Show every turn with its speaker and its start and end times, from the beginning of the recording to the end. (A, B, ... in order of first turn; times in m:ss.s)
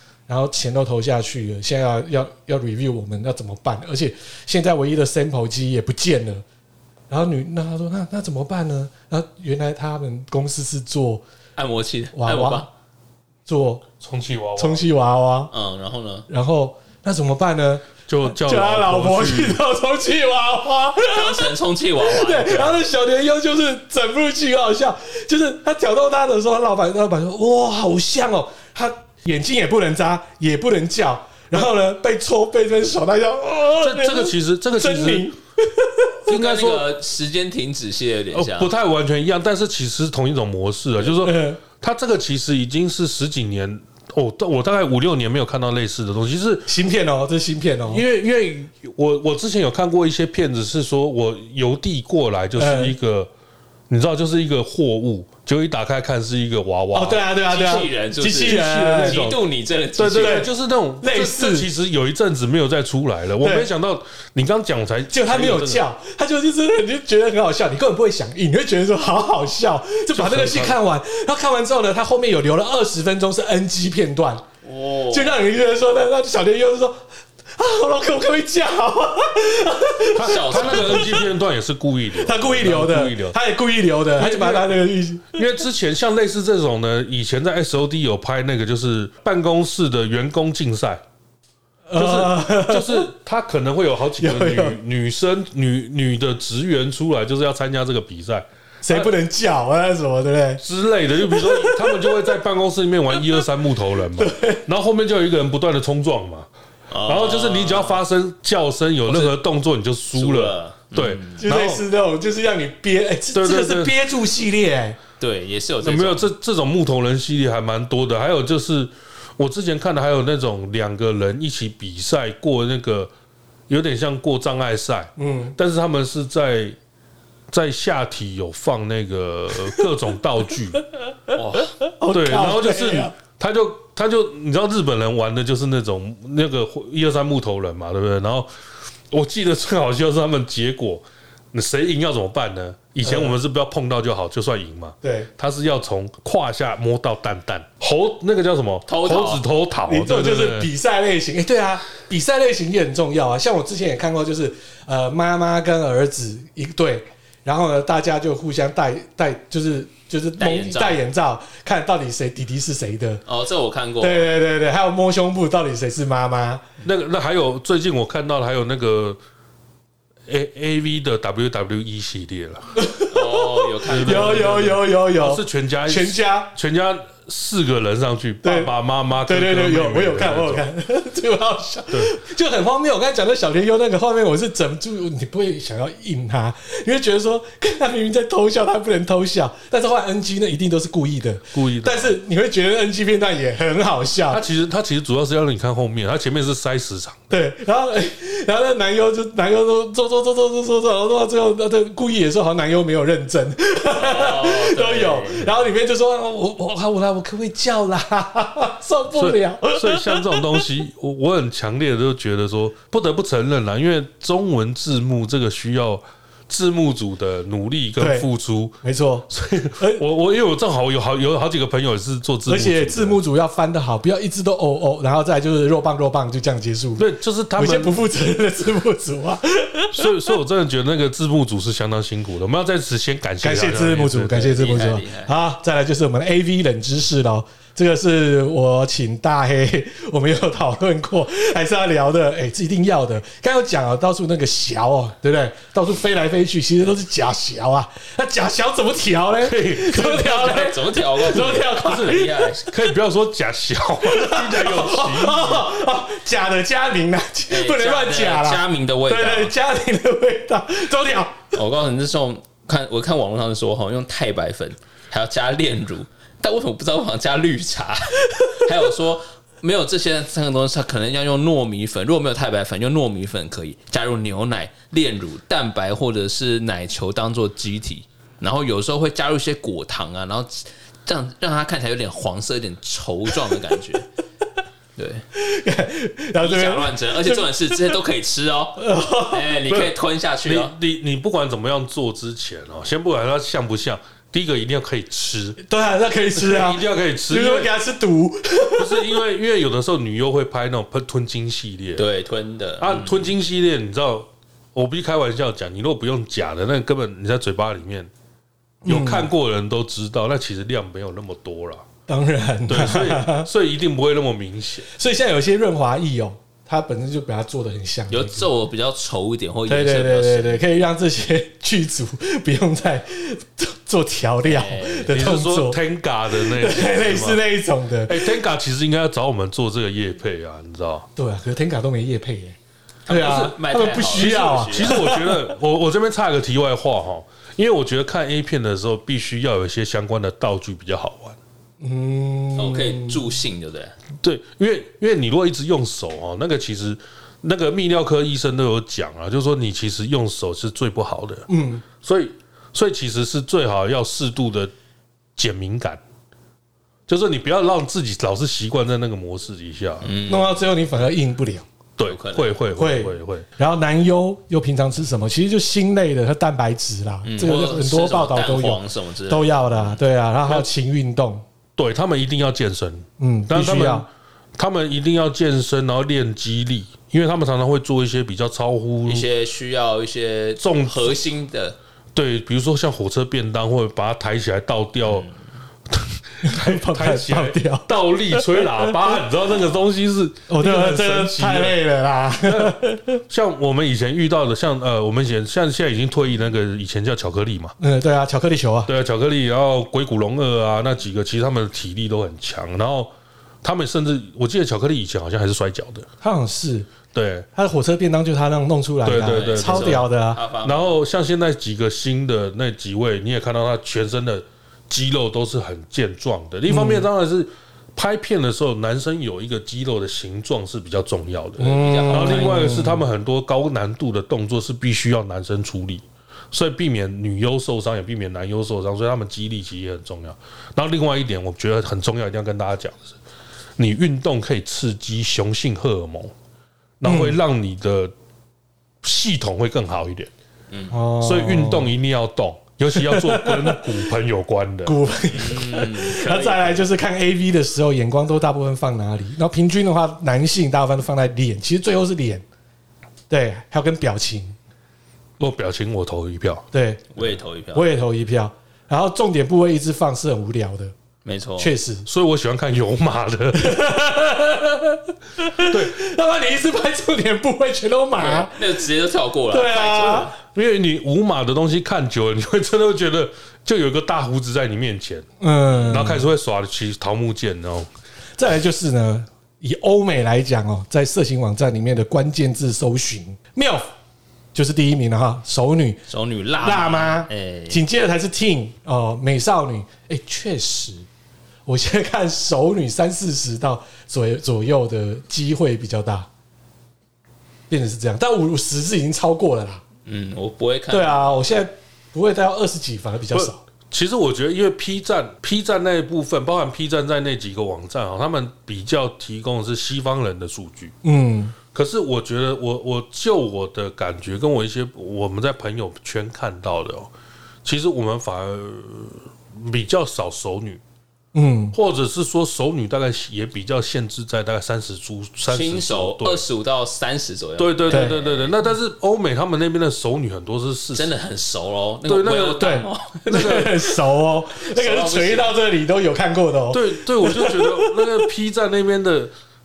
0:00.3-0:06.4 A
0:07.1-0:11.2 A
0:11.6-0:12.7 B
0:12.2-0:12.7 A
0:13.5-0:13.8 A
0:14.0-0:14.8 C
0:14.6-0:15.5 A
0:15.5-0:16.3 B
0:16.3-0:36.2 A
0:18.1-0:19.6 C
0:21.1-0:22.8 B
0:33.8-0:35.3 C
0:36.3-0:36.9 C
0:36.3-0:38.7 B
0:38.3-0:46.7 C
0:41.2-0:41.6 A
0:46.7-0:48.0 A
0:47.9-0:53.3 C
0:52.6-0:53.0 A
0:53.9-0:57.2 C
0:56.9-0:59.3 A
0:57.4-1:00.5 B
0:58.4-0:59.4 C
1:00.0-1:05.8 C
1:00.2-1:00.5 A
1:01.0-1:01.7 A
1:03.4-1:03.7 A
1:05.1-1:14.4 A
1:10.1-1:10.8 C
1:14.6-1:15.4 B
1:15.1-1:17.0 A
1:17.5-1:21.3 A
1:20.1-1:23.4 C
1:20.2-1:21.2 B
1:22.2-1:25.5 A
1:24.2-1:24.8 C
1:25.3-1:31.0 C
1:31.9-1:33.1 A
1:32.0-1:39.1 C
1:34.2-1:34.8 A
1:38.8-1:40.6 A
1:40.6-1:46.5 C
1:41.2-1:42.2 A
1:44.2-1:44.6 A
1:46.9-1:48.0 B
1:47.1-1:51.8 C
1:49.1-1:49.4 B
1:50.1-1:51.5 B
1:51.4-1:55.0 A
1:53.3-1:54.0 C
1:55.2-1:56.3 B
1:55.8-2:03.1 C
2:03.7-2:06.8 C
2:05.2-2:05.6 A
2:07.5-2:10.8 C
2:11.3-2:11.7 B
2:11.9-2:13.2 A
2:12.1-2:18.5 C
2:19.1-2:30.7 C
2:23.0-2:23.4 A
2:25.0-2:25.3 A
2:28.9-2:29.4 B
2:29.9-2:43.2 A
2:40.4-2:41.0 B
2:43.3-2:44.3 B
2:44.0-2:46.6 A
2:46.8-2:49.2 C
2:50.3-2:52.7 C
2:52.8-2:56.5 A
2:53.1-2:54.8 B
2:53.9-3:00.6 C
2:58.4-3:14.4 A
3:11.5-3:12.2 C
3:14.3-3:17.3 C
3:17.3-3:30.7 A
3:23.9-3:25.5 B
3:29.1-3:38.8 C
3:38.0-3:38.3 A
3:38.8-3:40.0 A
3:39.3-3:43.2 C
3:42.5-3:50.1 A
3:47.0-3:48.0 C
3:49.9-3:54.6 C
3:53.4-4:12.5 A
3:54.4-3:55.3 B
4:09.4-4:10.7 C
4:10.3-4:12.7 B
4:11.7-4:15.7 C
4:14.0-4:21.5 A
4:17.5-4:19.5 B
4:21.5-4:44.1 B
4:45.0-4:45.2 B
4:45.4-4:48.0 A
4:46.4-4:50.7 B
4:48.8-4:49.6 A
4:49.7-4:55.6 C
4:55.7-4:59.2 A
4:56.3-4:57.7 C
4:58.8-5:02.0 C
5:02.0-5:03.3 B
5:02.8-5:08.1 C
5:08.8-5:09.3 A
5:08.8-5:11.8 C
5:12.1-5:13.5 A
5:12.7-5:14.9 C
5:14.9-5:18.5 A
5:18.1-5:20.6 B
5:19.7-5:25.8 A
5:24.4-5:25.1 B
5:25.1-5:27.4 C
5:26.3-5:28.3 A
5:28.1-5:31.1 C
5:31.2-5:32.6 A
5:33.1-5:35.0 B
5:33.1-5:35.4 A
5:34.1-5:41.4 C
5:41.8-5:43.3 A
5:42.6-5:44.0 B
5:44.2-5:51.5 C
5:51.5-5:51.8 A
5:52.0-5:54.7 C
5:55.4-5:56.0 C
5:57.1-6:00.1 C
6:00.0-6:00.6 B
6:00.3-6:01.7 A
6:02.0-6:03.5 C
6:02.0-6:02.5 B
6:02.8-6:11.4 A
6:07.2-6:10.0 B
6:11.8-6:19.3 C
6:13.2-6:14.1 A
6:19.1-6:21.8 B
6:20.6-6:21.2 C
6:22.2-6:25.3 C
6:25.1-6:25.3 B
6:25.9-6:31.8 C
6:26.4-6:29.2 A
6:30.5-6:33.2 A
6:32.4-6:37.7 C
6:37.8-6:38.9 A
6:38.9-6:43.1 C
6:43.6-6:46.1 C
6:46.2-6:46.9 A
6:47.1-6:47.5 C
6:47.6-6:50.4 A
6:49.0-6:50.1 C
6:49.3-6:51.0 B
6:50.6-7:13.2 C
6:56.7-6:57.1 A
7:01.6-7:03.0 A
7:01.6-7:02.8 B
7:13.8-7:16.3 C
7:17.0-7:18.1 C
7:17.0-7:17.4 A
7:19.0-7:20.3 C
7:20.7-7:21.0 B
7:20.9-7:21.9 A
7:21.2-7:25.0 C
7:22.9-7:24.1 A
7:24.8-7:32.4 A
7:25.3-7:26.9 B
7:33.3-7:34.6 A
7:35.4-7:36.6 C
7:36.7-7:37.1 A
7:37.1-7:37.9 B
7:37.7-7:40.9 A
7:41.2-7:41.7 B
7:41.6-7:42.1 A
7:42.1-7:43.8 C
7:43.6-7:48.8 A
7:45.6-7:46.0 C
7:48.2-7:50.4 B
7:49.5-7:50.3 A
7:50.5-7:55.3 C
7:55.4-7:56.3 A
7:55.9-7:57.9 C
7:58.4-8:03.9 A
8:04.5-8:06.0 A
8:06.1-8:07.8 B
8:06.6-8:11.1 A
8:11.7-8:16.3 A
8:17.7-8:19.8 A
8:20.1-8:21.5 B
8:20.9-8:23.6 A
8:23.3-8:30.9 C
8:31.0-8:31.6 A
8:31.7-8:37.1 C
8:37.6-8:40.8 C
8:41.3-8:41.8 A
8:41.7-8:46.4 C
8:45.5-8:48.5 B
8:47.6-8:51.1 C
8:47.9-8:48.2 A
8:50.9-8:53.7 B
8:52.1-8:52.7 C
8:52.6-8:58.3 A
8:53.3-8:53.9 C
8:54.6-8:55.6 B
8:56.7-8:59.3 C